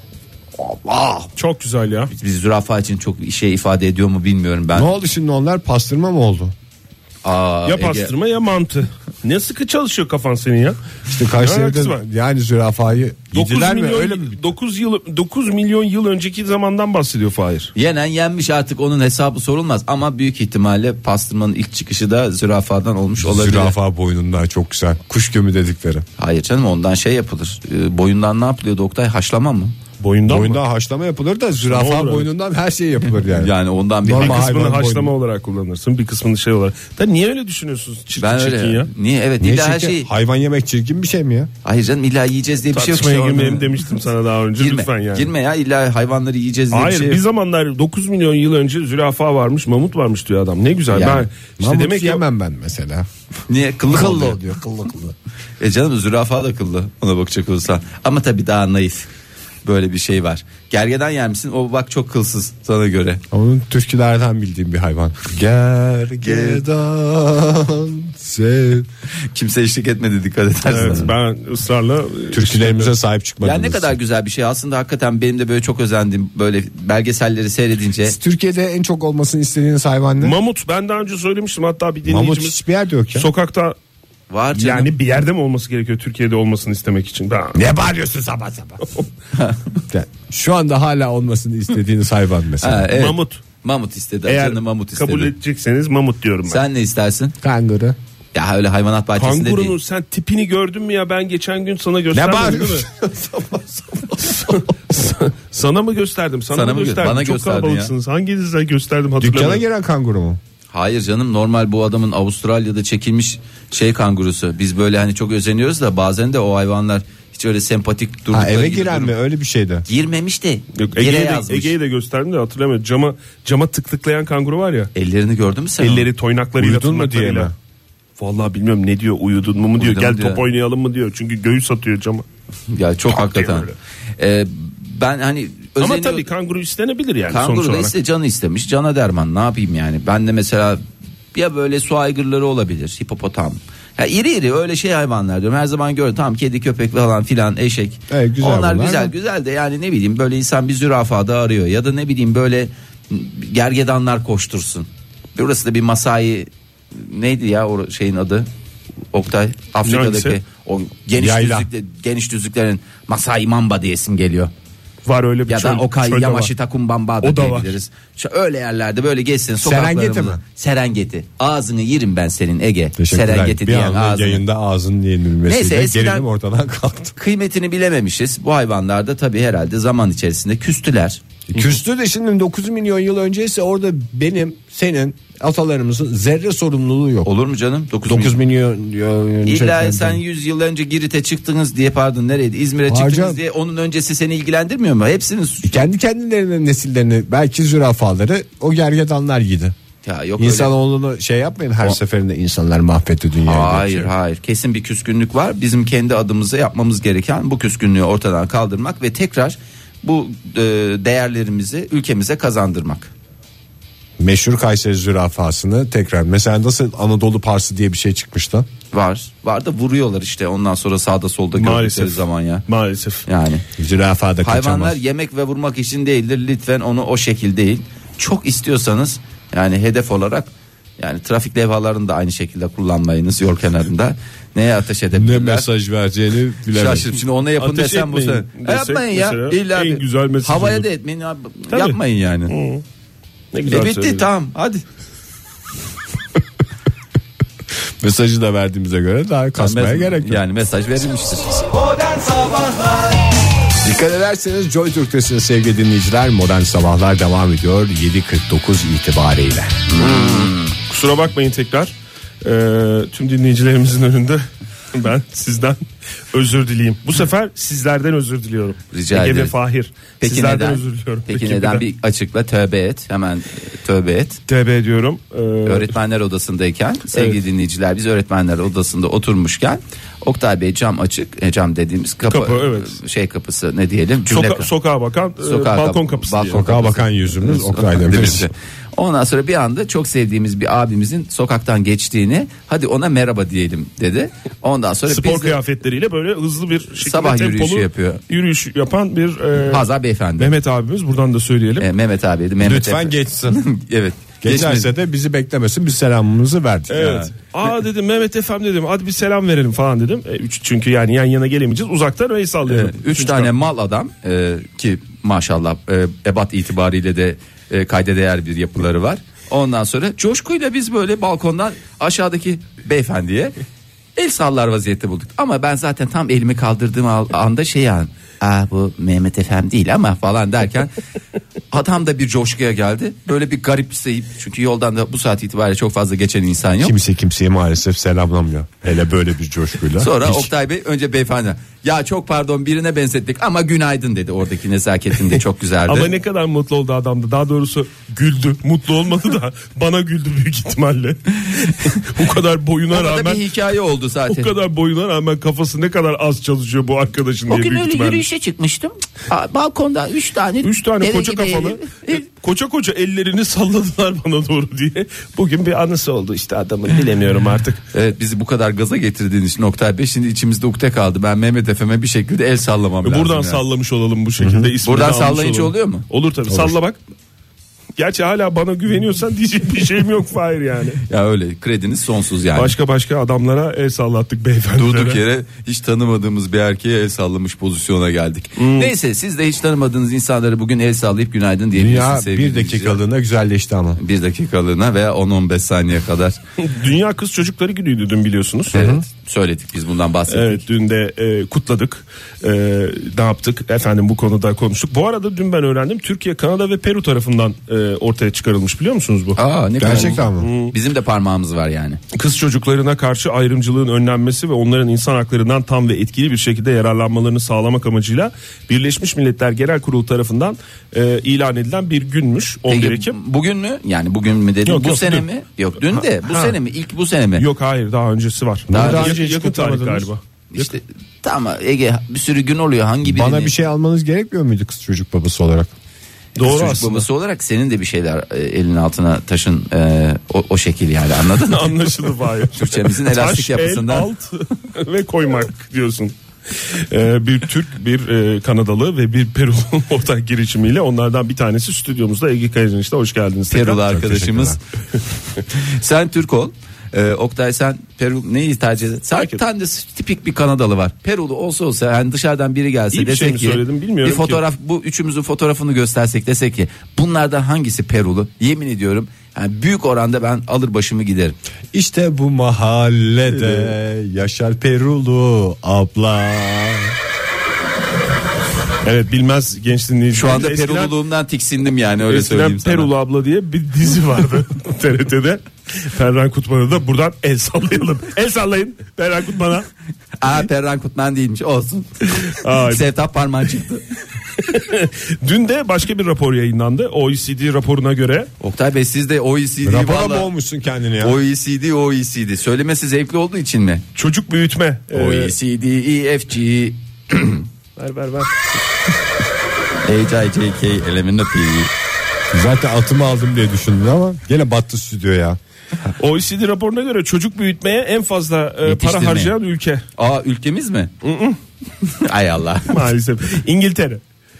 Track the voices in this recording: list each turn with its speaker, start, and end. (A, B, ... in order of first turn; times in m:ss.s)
0:00.6-0:01.3 A
0:01.4-0:02.1 B
0:02.1-0:04.9 C
0:04.7-0:06.5 A
0:07.2-0:08.1 C
0:07.7-0:10.8 B
0:11.1-0:14.4 A
0:11.4-0:12.0 B
0:13.3-0:17.7 B
0:17.8-0:23.7 C
0:23.2-0:26.0 A
0:26.2-0:29.8 C
0:30.0-0:30.6 B
0:30.3-0:35.1 A
0:31.7-0:32.3 B
0:33.3-0:34.6 C
0:34.2-0:38.9 B
0:38.2-0:40.1 C
0:39.4-0:41.5 A
0:41.6-0:43.8 C
0:42.7-0:45.3 B
0:44.6-0:47.2 C
0:46.7-0:52.2 B
0:50.9-0:51.3 C
0:51.6-0:53.1 A
0:53.5-0:54.4 C
0:53.9-0:55.2 A
0:55.6-0:59.1 C
0:59.6-1:03.2 C
1:03.3-1:08.9 A
1:06.2-1:06.6 C
1:09.3-1:11.1 C
1:10.7-1:13.0 B
1:10.7-1:11.1 A
1:12.3-1:14.0 A
1:13.4-1:18.2 C
1:18.0-1:20.4 A
1:20.2-1:22.6 B
1:22.0-1:23.3 A
1:23.1-1:23.8 B
1:24.3-1:24.9 C
1:24.5-1:27.6 B
1:27.6-1:28.8 A
1:29.3-1:29.6 C
1:29.9-1:32.9 A
1:32.6-1:35.3 C
1:32.9-1:33.4 B
1:34.3-1:36.6 B
1:36.5-1:37.4 C
1:37.4-1:38.0 A
1:38.3-1:39.7 C
1:39.2-1:42.9 B
1:42.1-1:44.6 A
1:44.3-1:49.6 B
1:46.5-1:47.9 C
1:49.2-1:50.4 A
1:50.7-1:59.1 C
1:58.3-1:59.9 A
1:59.9-2:01.7 C
2:00.8-2:04.9 B
2:05.0-2:06.1 C
2:05.8-2:07.5 B
2:06.6-2:07.5 A
2:08.2-2:12.3 B
2:09.8-2:10.4 C
2:12.7-2:16.2 C
2:13.1-2:13.8 B
2:15.8-2:17.9 B
2:17.3-2:20.8 C
2:21.3-2:38.5 C
2:28.1-2:29.1 A
2:39.1-2:44.5 C
2:39.8-2:40.4 B
2:41.2-2:41.7 A
2:45.0-2:46.5 B
2:45.5-2:54.4 C
2:47.2-2:47.8 B
2:49.6-2:50.4 A
2:53.0-2:57.2 A
2:55.5-2:56.2 C
2:57.2-3:01.2 C
3:01.5-3:07.3 A
3:07.2-3:08.4 C
3:08.1-3:10.2 A
3:09.5-3:15.8 C
3:12.9-3:13.4 A
3:15.6-3:19.8 A
3:20.0-3:20.7 C
3:20.4-3:24.1 A
3:23.4-3:33.1 C
3:34.2-3:38.7 A
3:38.9-3:42.6 C
3:41.5-3:43.2 B
3:43.3-3:43.6 C
3:43.8-3:45.0 A
3:44.4-3:55.7 C
3:55.1-3:57.2 A
3:56.7-4:02.5 C
3:57.6-4:00.9 B
4:01.7-4:02.8 B
4:03.5-4:04.3 B
4:03.7-4:04.8 C
4:08.0-4:10.4 A
4:09.6-4:12.1 C
4:13.8-4:19.8 A
4:19.9-4:20.7 C
4:20.0-4:31.8 B
4:28.9-4:29.5 C
4:30.2-4:34.4 C
4:34.5-4:36.0 B
4:35.6-4:44.7 C
4:37.1-4:37.4 B
4:42.3-4:43.0 B
4:44.3-4:46.6 B
4:45.4-4:55.6 C
4:46.5-4:48.5 A
4:55.1-4:59.9 B
4:57.0-4:58.2 C
4:59.6-5:00.5 C
5:00.4-5:01.9 B
5:01.8-5:04.9 C
5:02.6-5:03.6 A
5:04.4-5:07.0 A
5:06.9-5:13.5 B
5:06.9-5:07.3 C
5:12.7-5:23.6 C
5:24.2-5:30.9 C
5:31.7-5:37.0 C
5:36.8-5:40.5 A
5:40.0-5:46.1 C
5:45.9-5:53.5 B
5:52.9-5:54.5 C
5:54.3-5:58.2 B
5:57.5-6:02.2 C
6:00.6-6:07.8 B
6:07.9-6:13.6 C
6:13.0-6:17.0 B
6:14.4-6:14.7 A
6:14.8-6:16.1 C
6:16.5-6:16.8 A
6:18.0-6:21.0 B
6:21.1-6:22.8 C
6:22.6-6:25.2 B
6:24.8-6:33.0 C
6:28.6-6:28.9 B
6:31.8-6:34.0 A
6:34.0-6:36.4 C
6:36.6-6:38.9 B
6:38.7-6:39.0 A
6:38.7-6:40.6 C
6:40.3-6:50.8 B
6:49.4-6:52.0 C
6:49.8-6:50.5 A
6:52.1-7:03.2 B
7:02.7-7:07.4 C
7:04.7-7:05.3 B
7:05.9-7:06.6 B
7:07.4-7:10.7 B
7:08.7-7:10.1 A
7:08.7-7:09.2 C
7:10.5-7:13.5 C
7:13.0-7:15.7 A
7:16.4-7:17.1 B
7:16.4-7:21.8 C
7:21.4-7:33.8 B
7:22.5-7:24.1 C
7:33.5-7:34.6 C
7:33.7-7:34.6 A
7:35.5-7:51.4 C
7:42.9-7:44.4 B
7:51.7-7:57.0 A
7:58.8-8:00.9 B
8:00.2-8:02.9 C
8:02.1-8:09.7 B
8:10.2-8:13.9 C
8:12.3-8:12.8 B
8:14.4-8:18.3 B
8:18.4-8:20.3 C
8:19.6-8:21.2 A
8:21.0-8:23.8 C
8:24.0-8:25.3 B
8:24.9-8:27.4 C
8:27.8-8:28.6 B
8:29.8-8:31.7 C
8:32.3-8:35.4 A
8:36.0-8:39.8 B
8:38.6-8:39.4 C
8:40.0-8:40.9 C
8:41.0-8:41.4 B
8:41.8-8:42.8 C
8:42.7-8:44.0 B